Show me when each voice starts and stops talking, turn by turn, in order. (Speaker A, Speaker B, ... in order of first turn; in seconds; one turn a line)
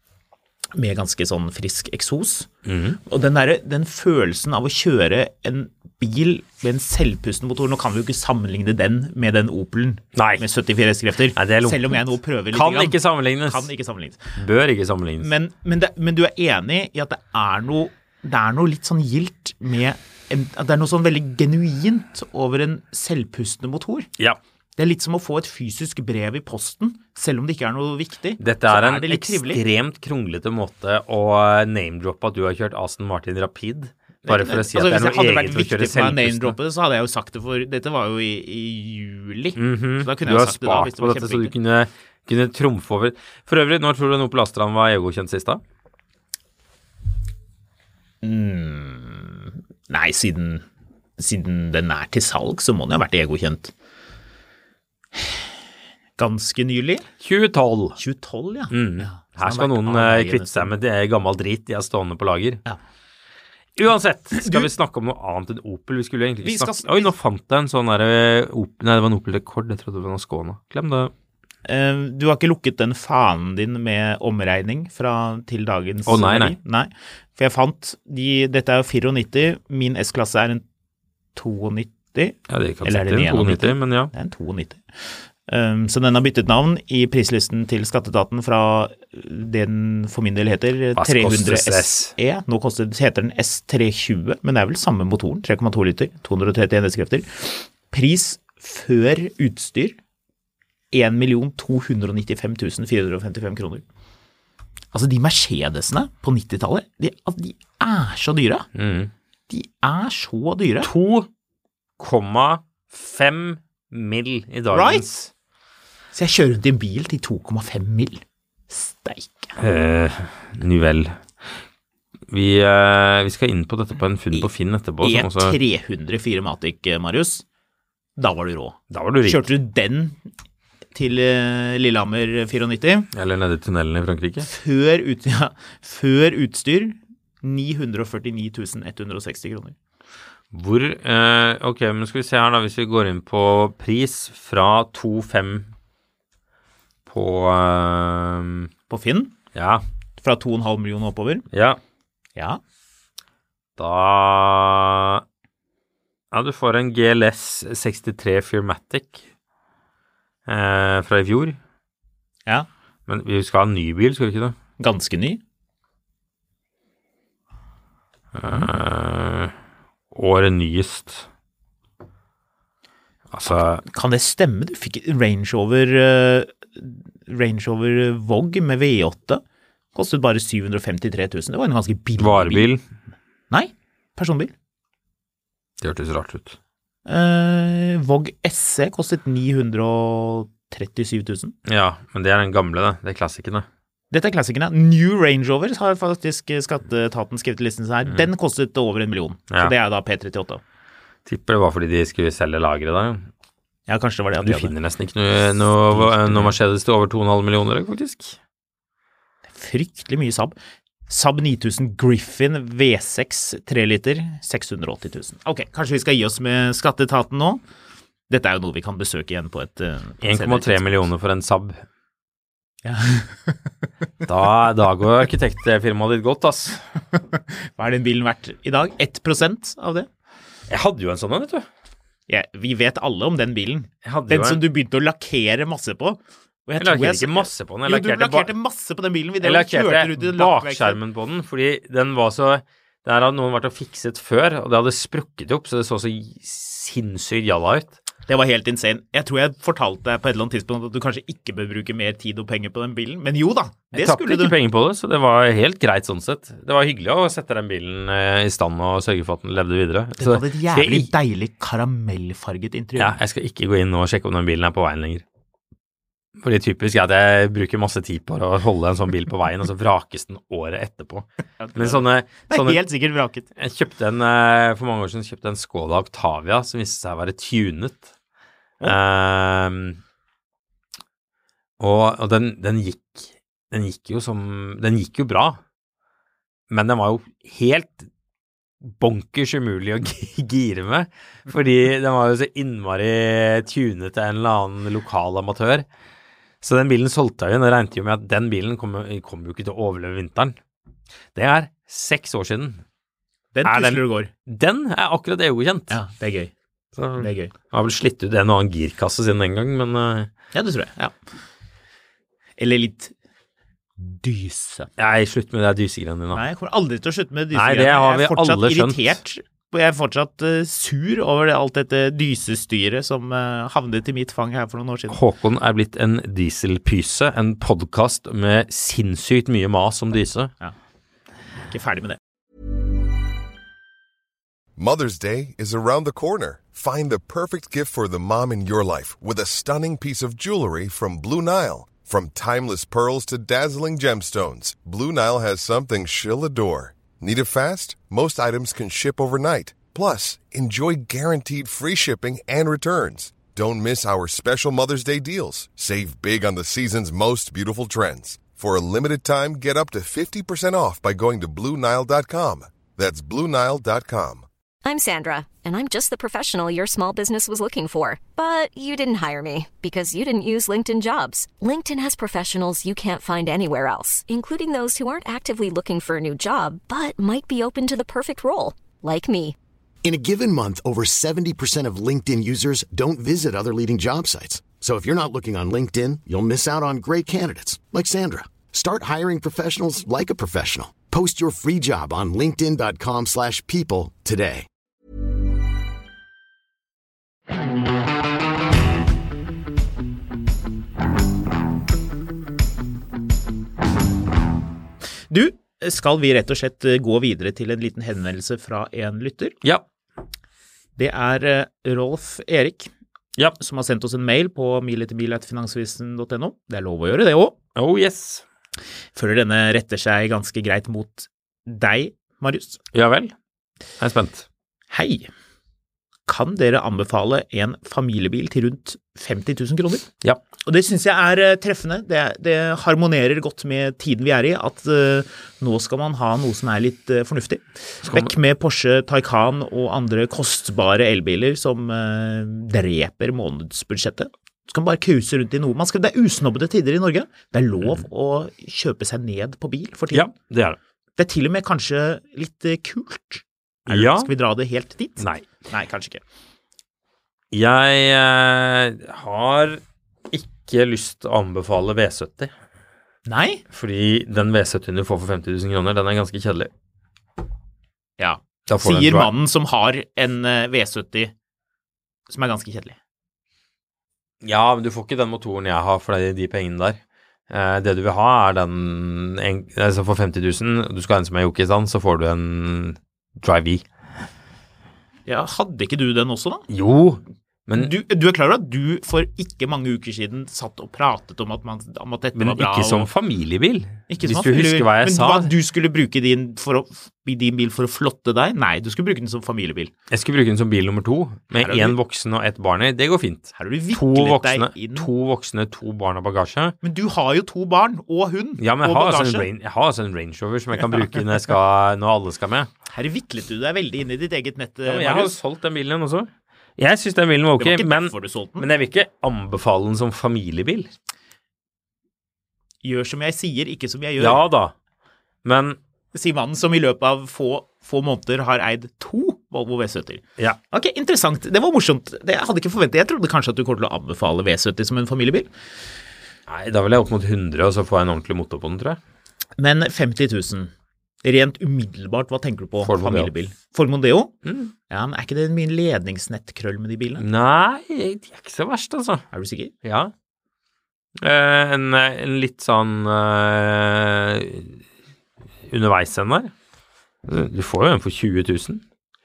Speaker A: 0.8-2.5
Speaker B: 2.6-3.0
Speaker A: 3.0-14.3
Speaker B: 10.1-10.5
Speaker B: 11.3-13.7
Speaker B: 14.4-15.3
Speaker A: 15.2-24.1
Speaker A: 24.8-29.6
Speaker B: 28.4-36.6
Speaker A: 34.2-41.5
Speaker B: 39.6-45.6
Speaker A: 48.2-50.6
Speaker A: 51.2-53.7
Speaker A: 56.2-57.1
Speaker B: 57.2-58.0
Speaker A: 58.0-60.7
Speaker B: 58.7-62.6
Speaker B: 63.8-71.1
Speaker A: 64.3-64.7
Speaker A: 66.4-67.1
Speaker A: 71.7-80.6
Speaker B: 76.1-76.6
Speaker A: 81.4-100.0
Speaker B: 82.5-84.1
Speaker B: 91.0-92.1
Speaker A: 100.9-103.8
Speaker A: 104.9-108.7
Speaker B: 108.8-109.1
Speaker A: 109.5-110.9
Speaker B: 110.8-111.3
Speaker B: 112.0-115.3
Speaker A: 114.7-115.1
Speaker A: 116.1-119.5
Speaker B: 119.6-121.2
Speaker B: 122.3-125.6
Speaker A: 125.0-127.4
Speaker A: 128.2-130.2
Speaker B: 128.9-129.5
Speaker A: 130.9-133.1
Speaker B: 133.1-134.5
Speaker A: 134.4-139.8
Speaker B: 140.5-145.7
Speaker B: 147.1-148.7
Speaker A: 148.9-149.3
Speaker B: 149.5-149.8
Speaker A: 150.2-151.4
Speaker B: 151.5-151.8
Speaker B: 153.8-155.2
Speaker B: 156.3-159.3
Speaker B: 160.5-161.6
Speaker B: 163.1-164.6
Speaker A: 164.8-165.4
Speaker B: 168.3-169.5
Speaker B: 170.1-171.3
Speaker B: 173.3-173.8
Speaker A: 173.5-179.4
Speaker A: 179.9-182.7
Speaker B: 182.2-182.8
Speaker A: 183.5-184.5
Speaker B: 185.8-186.6
Speaker A: 187.1-191.6
Speaker B: 191.7-193.7
Speaker A: 194.1-200.6
Speaker B: 201.3-203.3
Speaker A: 203.9-204.8
Speaker B: 204.4-208.4
Speaker A: 205.9-206.5
Speaker A: 209.5-210.6
Speaker A: 211.1-217.6
Speaker A: 218.3-221.1
Speaker B: 220.2-221.8
Speaker A: 222.8-223.6
Speaker B: 224.3-226.8
Speaker A: 227.1-230.1
Speaker B: 230.7-231.7
Speaker A: 232.3-241.0
Speaker B: 234.0-234.6
Speaker B: 236.8-238.5
Speaker B: 239.4-248.0
Speaker A: 248.3-254.6
Speaker B: 253.9-261.1
Speaker A: 260.2-263.2
Speaker B: 263.0-265.2
Speaker B: 266.4-272.8
Speaker A: 271.6-273.5
Speaker B: 273.6-278.1
Speaker B: 278.8-280.0
Speaker B: 281.8-285.6
Speaker B: 286.7-288.1
Speaker B: 288.8-295.9
Speaker B: 296.6-300.6
Speaker B: 301.4-302.8
Speaker A: 303.5-304.3
Speaker B: 303.6-306.0
Speaker A: 305.9-306.5
Speaker B: 307.0-310.3
Speaker A: 307.2-307.5
Speaker A: 310.5-311.1
Speaker A: 312.6-313.1
Speaker A: 314.0-314.9
Speaker B: 315.0-316.4
Speaker A: 316.3-325.2
Speaker B: 317.5-319.2
Speaker B: 325.1-330.5
Speaker A: 331.7-332.2
Speaker C: 334.8-364.5
Speaker D: 364.9-379.6
Speaker E: 380.0-394.7
Speaker A: 405.3-409.6
Speaker A: 411.0-412.9
Speaker A: 413.6-417.6
Speaker B: 417.8-418.4
Speaker A: 419.1-422.8
Speaker B: 422.9-423.3
Speaker B: 424.0-424.5
Speaker A: 424.9-425.3
Speaker A: 426.3-430.1
Speaker A: 430.6-450.3
Speaker B: 438.0-438.3
Speaker B: 450.1-450.8
Speaker A: 451.2-456.2
Speaker B: 453.9-454.3
Speaker B: 455.2-455.5
Speaker B: 457.5-462.5
Speaker A: 463.3-463.6
Speaker B: 463.7-466.7
Speaker A: 468.2-471.3
Speaker B: 468.7-469.3
Speaker A: 472.3-473.0
Speaker B: 474.4-483.9
Speaker A: 485.3-486.7
Speaker B: 486.7-487.9
Speaker A: 487.8-493.1
Speaker B: 492.4-495.5
Speaker A: 494.1-499.9
Speaker B: 500.1-506.8
Speaker A: 501.6-502.0
Speaker A: 503.6-505.1
Speaker A: 506.8-509.5
Speaker B: 508.6-512.7
Speaker A: 512.9-515.4
Speaker B: 514.9-520.9
Speaker A: 517.6-518.7
Speaker A: 522.8-524.5
Speaker B: 524.2-524.7
Speaker B: 525.4-525.8
Speaker A: 526.1-535.5
Speaker B: 536.5-539.0
Speaker A: 539.6-540.7
Speaker A: 541.2-544.3
Speaker B: 542.8-543.3
Speaker B: 544.4-544.7
Speaker A: 544.9-547.2
Speaker B: 547.2-549.2
Speaker A: 549.3-549.7
Speaker B: 549.8-550.1
Speaker B: 551.2-554.8
Speaker B: 555.7-556.5
Speaker B: 557.2-558.8